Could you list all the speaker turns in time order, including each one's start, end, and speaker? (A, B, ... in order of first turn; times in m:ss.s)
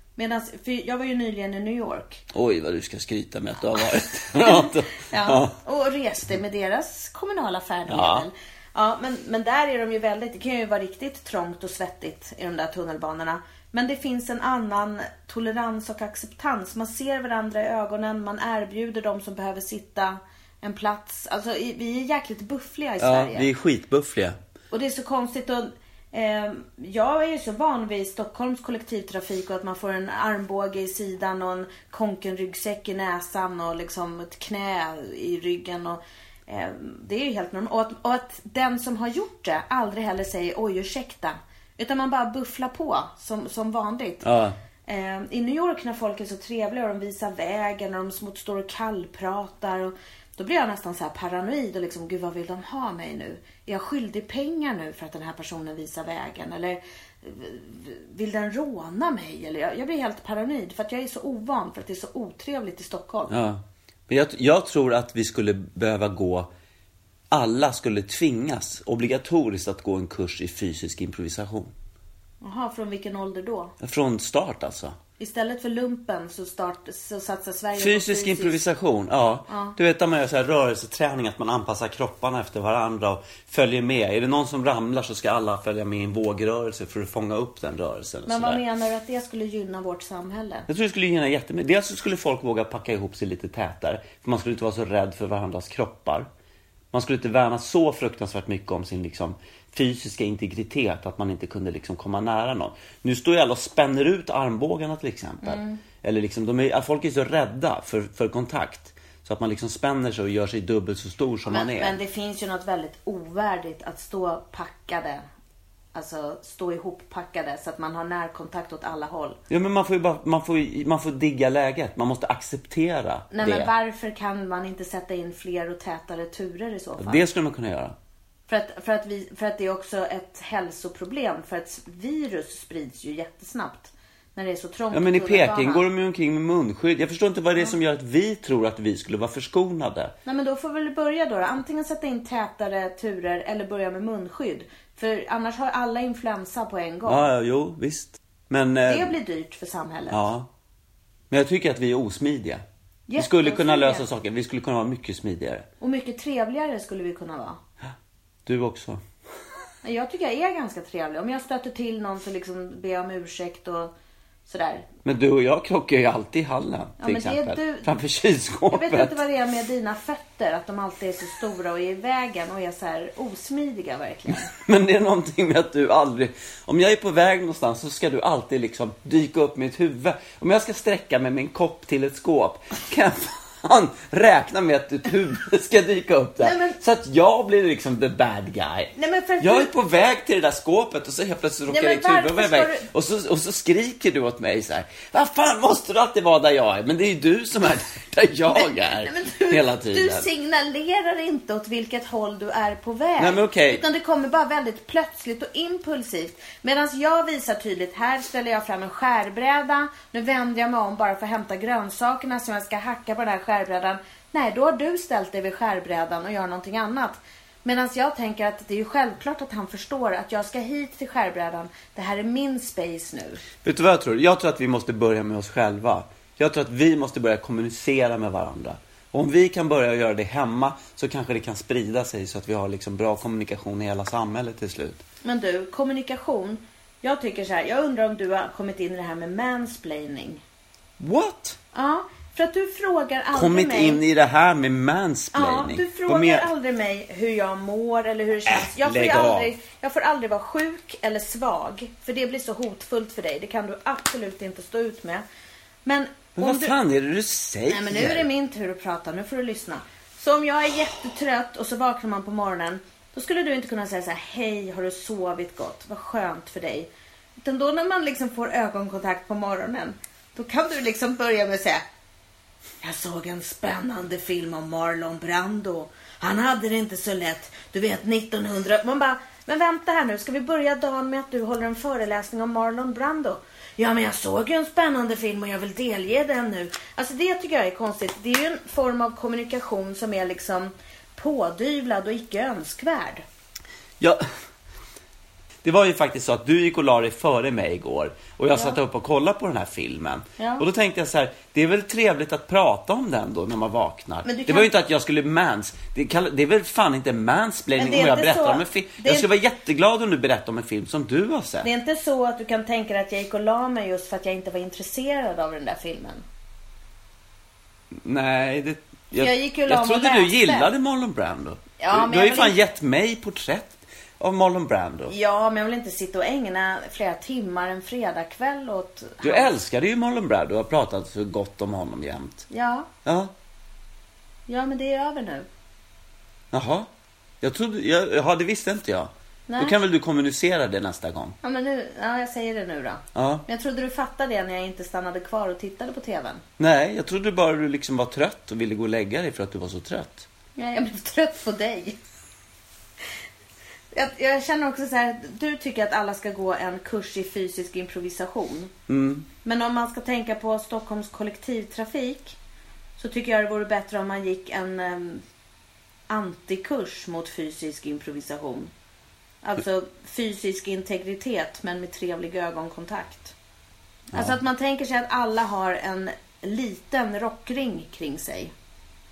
0:00.2-0:02.2 A
0:02.3-0:05.5 B
0:04.4-0:23.5 A
0:07.9-0:08.3 B
0:23.0-0:24.4 B
0:24.7-0:44.3 A
0:44.2-0:44.6 B
0:44.9-1:03.3 A
1:03.3-1:06.5 B
1:07.3-1:11.7 B
1:12.4-1:13.7 A
1:13.8-1:15.0 B
1:15.2-1:18.6 A
1:17.8-1:28.6 B
1:19.5-1:19.8 A
1:28.3-1:30.7 A
1:30.7-1:36.3 B
1:36.9-1:52.0 B
1:45.4-1:45.8 A
1:51.5-1:55.2 A
1:55.9-1:59.4 A
1:59.5-2:03.7 B
2:03.3-2:07.2 A
2:07.0-2:08.0 B
2:08.5-2:15.8 A
2:14.9-2:20.1 B
2:20.3-2:27.3 A
2:27.1-2:29.2 B
2:28.9-2:30.2 A
2:30.1-2:30.5 B
2:31.3-2:32.6 B
2:33.1-2:34.1 A
2:33.2-2:35.7 B
2:35.8-2:37.6 A
2:38.5-2:39.0 B
2:39.8-2:43.9 A
2:44.5-2:44.9 A
2:45.0-2:49.2 B
2:47.0-2:48.0 A
2:48.7-2:54.5 A
2:54.5-3:20.3 B
3:06.4-3:06.8 A
3:09.0-3:09.7 A
3:11.7-3:12.9 A
3:18.5-3:43.4 A
3:23.2-3:23.8 B
3:43.6-3:55.0 B
3:55.2-4:00.4 A
4:01.0-4:01.6 B
4:01.7-4:04.0 A
4:03.3-4:06.5 B
4:05.3-4:15.2 A
4:08.5-4:09.5 B
4:15.8-4:16.8 A
4:16.4-4:18.3 B
4:17.7-4:31.8 A
4:32.8-4:53.2 A
4:55.6-5:11.7 B
5:00.4-5:00.6 A
5:04.2-5:04.7 A
5:07.8-5:09.3 A
5:11.6-5:16.2 A
5:18.0-5:25.1 B
5:19.2-5:20.7 A
5:21.8-5:22.6 A
5:25.1-5:29.5 A
5:29.2-5:32.5 B
5:32.5-5:32.9 A
5:33.0-5:33.3 B
5:34.5-5:35.5 A
5:36.5-5:36.9 B
5:37.4-5:41.4 B
5:39.5-5:39.8 A
5:41.4-5:46.4 A
5:43.2-5:43.4 B
5:46.6-5:50.3 B
5:50.6-5:52.0 A
5:53.9-5:58.7 A
5:58.9-5:59.3 B
5:59.4-6:02.4 A
6:03.0-6:05.2 A
6:06.1-6:08.7 A
6:09.4-6:13.3 A
6:14.1-6:18.5 A